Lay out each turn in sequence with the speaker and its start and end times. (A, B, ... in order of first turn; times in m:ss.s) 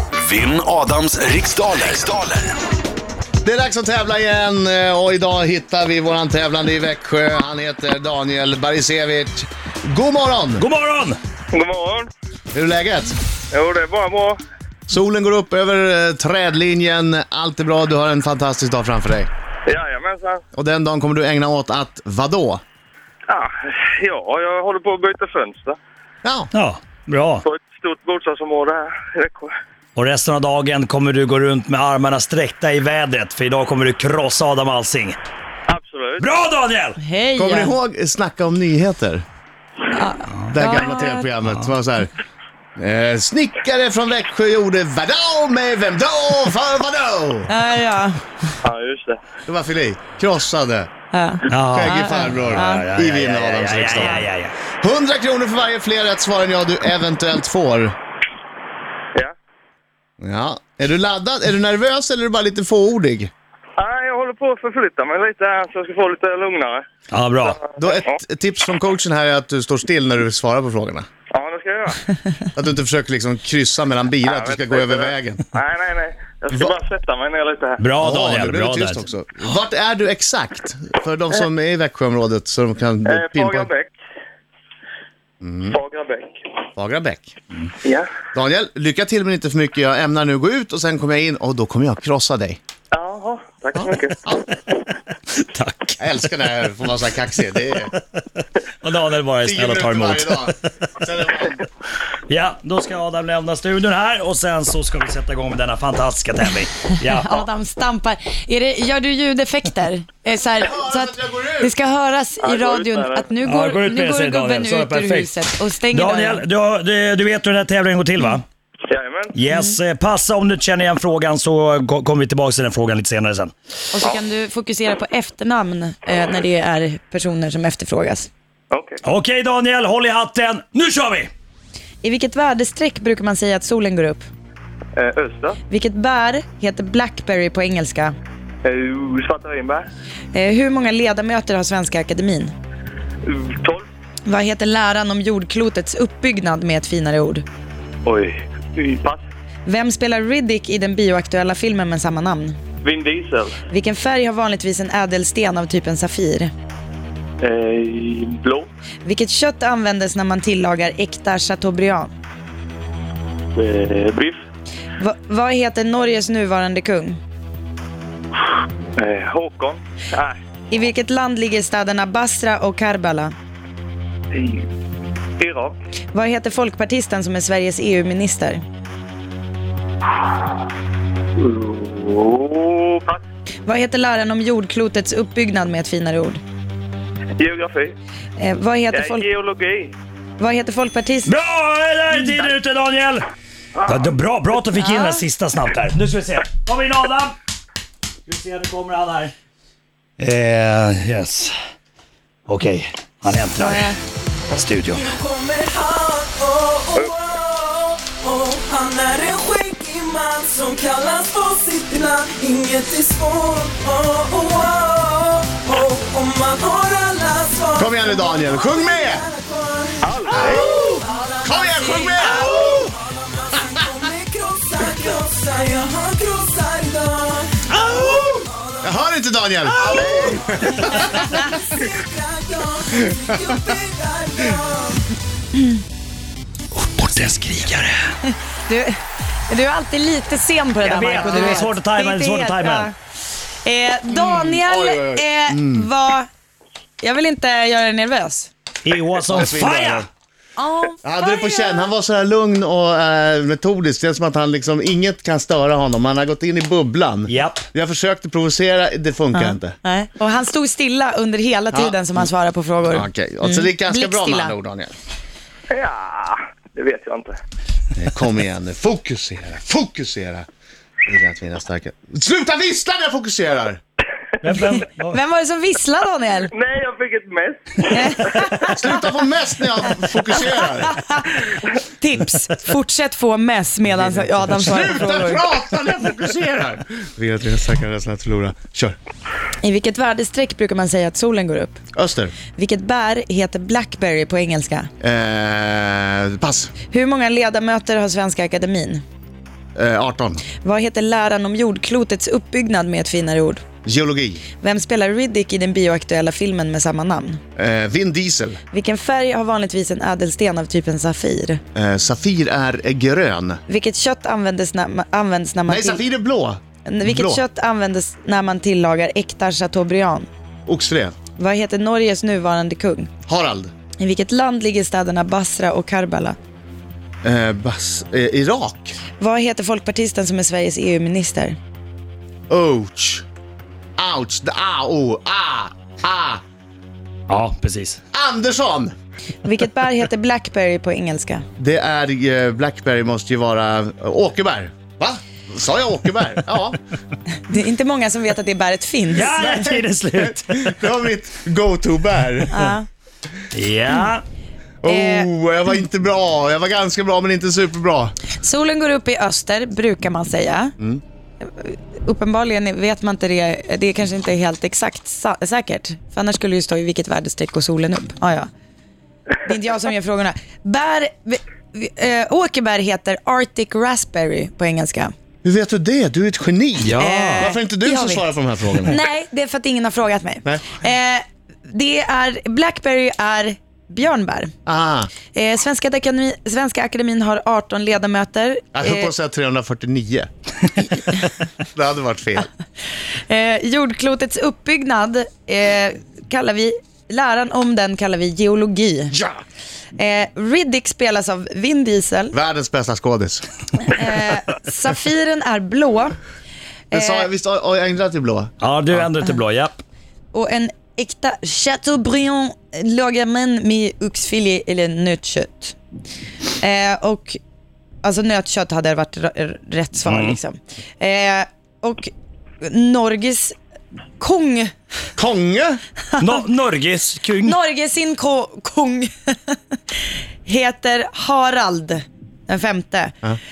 0:00.2-0:02.6 A
0:03.4-0:10.6 B
0:10.6-0:11.2 C
0:11.5-0:12.1 D
0:12.5-0:13.2 B
0:13.5-0:14.4 D
0:14.9-0:19.3 B
0:19.6-0:20.4 D
0:20.5-0:22.6 B
0:23.3-0:25.8 D
0:26.2-0:26.5 B
0:26.5-0:27.4 C
0:27.4-0:29.5 D
0:30.0-0:35.2 C
0:35.7-0:36.3 D
0:36.2-0:37.0 C
0:37.0-0:37.8 E
0:37.3-0:39.2 B
0:39.9-0:41.3 E
0:40.5-0:42.1 B
0:42.8-0:47.5 B
0:47.5-0:48.5 E
0:48.6-0:49.2 D
0:49.5-0:50.9 B
0:51.1-0:52.9 E
0:51.5-0:54.5 C
0:51.7-0:57.9 B
1:00.2-1:03.3 B
1:03.8-1:06.8 D
1:07.1-1:07.6 C
1:07.4-1:08.2 D
1:07.7-1:11.1 B
1:11.3-1:12.2 D
1:12.5-1:15.4 B
1:14.2-1:17.8 D
1:17.8-1:19.0 C
1:18.0-1:23.7 B
1:23.0-1:23.9 D
1:25.4-1:25.8 B
1:25.7-1:26.3 D
1:26.8-1:27.3 B
1:27.8-1:28.1 D
1:28.3-1:32.6 B
1:32.9-1:34.2 D
1:33.7-1:34.5 B
1:35.3-1:36.0 C
1:36.0-1:37.9 B
1:38.8-1:40.5 C
1:39.4-1:41.7 B
1:42.3-1:47.4 C
1:47.1-1:56.4 E
1:50.6-1:51.7 B
1:52.4-1:53.3 D
1:53.4-1:55.3 C
1:55.9-1:58.4 C
1:58.9-1:59.3 D
1:59.3-2:03.5 C
1:59.5-1:59.8 E
2:03.9-2:08.3 E
2:08.7-2:09.0 D
2:09.0-2:11.3 C
2:12.0-2:14.3 E
2:15.0-2:15.6 D
2:15.7-2:18.1 E
2:18.6-2:19.8 D
2:20.3-2:22.5 E
2:23.2-2:23.8 D
2:24.2-2:27.4 E
2:28.0-2:29.2 D
2:29.6-2:32.6 E
2:32.8-2:33.6 D
2:33.7-2:36.5 E
2:37.4-2:38.7 D
2:39.0-2:42.1 E
2:43.5-2:44.4 D
2:45.0-2:47.2 E
2:49.0-2:50.4 D
2:50.7-2:53.3 E
2:54.3-2:54.6 D
2:55.4-2:55.8 D
2:56.1-2:58.6 E
3:01.4-3:03.2 D
3:03.6-3:06.4 E
3:07.4-3:08.0 D
3:08.4-3:09.2 E
3:08.9-3:10.0 D
3:10.4-3:11.4 E
3:11.2-3:13.2 C
3:13.8-3:17.3 C
3:14.8-3:15.2 E
3:18.2-3:19.3 C
3:20.2-3:21.5 C
3:22.5-3:23.9 C
3:23.5-3:24.0 E
3:24.5-3:25.0 C
3:25.0-3:48.8 F
3:37.8-3:39.2 B
3:40.0-3:40.7 D
3:40.3-3:42.9 B
3:47.8-3:48.0 B
3:48.8-3:51.2 B
3:49.8-3:50.5 D
3:49.8-3:55.0 F
3:56.9-3:58.0 C
3:58.2-3:59.0 E
3:59.5-4:02.9 E
4:00.8-4:02.9 C
4:03.6-4:06.3 E
4:04.1-4:05.9 B
4:07.0-4:08.5 E
4:08.8-4:10.1 C
4:09.3-4:10.1 B
4:10.6-4:11.9 E
4:11.0-4:19.8 B
4:17.3-4:17.6 C
4:19.3-4:24.5 E
4:21.7-4:22.3 B
4:22.9-4:24.9 B
4:25.7-4:27.4 D
4:28.0-4:30.4 B
4:31.0-4:33.8 B
4:34.4-4:35.2 C
4:35.1-4:36.5 E
4:36.5-4:38.7 D
4:37.9-4:38.8 E
4:38.6-4:41.0 B
4:40.4-4:45.4 E
4:43.9-4:49.0 B
4:49.6-4:51.8 E
4:51.9-4:52.3 B
4:52.5-4:54.9 E
4:55.0-4:56.7 B
4:56.9-4:59.0 E
4:59.7-5:00.4 B
5:00.6-5:03.6 E
5:03.8-5:04.4 B
5:04.6-5:07.4 E
5:07.6-5:08.6 B
5:08.7-5:11.6 E
5:11.7-5:13.6 B
5:13.7-5:16.0 E
5:15.7-5:17.4 B
5:16.8-5:20.3 E
5:20.7-5:21.1 B
5:21.4-5:23.1 E
5:23.3-5:23.7 B
5:24.0-5:26.4 E
5:27.2-5:28.9 B
5:29.2-5:31.6 E
5:32.5-5:33.2 B
5:34.0-5:36.4 B
5:37.3-5:38.0 C
5:38.1-5:38.9 B
5:39.4-5:41.4 E
5:41.6-5:46.8 B
5:47.5-5:49.7 E
5:49.1-5:50.7 C
5:49.4-5:52.7 B
5:52.5-5:52.9 E
5:53.5-5:54.2 C
5:54.8-5:58.1 B
5:54.8-5:55.3 E
5:58.4-6:00.7 E
6:01.4-6:08.5 E
6:09.4-6:15.1 E
6:15.4-6:19.0 B
6:16.8-6:17.4 C
6:17.0-6:18.2 E
6:18.8-6:24.5 E
6:20.4-6:20.7 B
6:24.6-6:25.1 B
6:25.3-6:29.1 E
6:28.7-6:30.3 B
6:31.6-6:32.5 B
6:33.3-6:39.2 E
6:40.0-6:42.3 E
6:42.3-6:43.4 B
6:43.8-6:46.2 E
6:46.9-6:47.3 E
6:46.9-6:49.1 B
6:48.6-6:49.8 C
6:50.3-6:55.8 E
6:56.6-6:57.4 E
6:58.0-7:03.6 E
7:00.0-7:00.4 C
7:04.2-7:04.7 E
7:05.2-7:05.8 B
7:06.2-7:07.6 C
7:07.4-7:09.6 E
7:10.4-7:13.2 E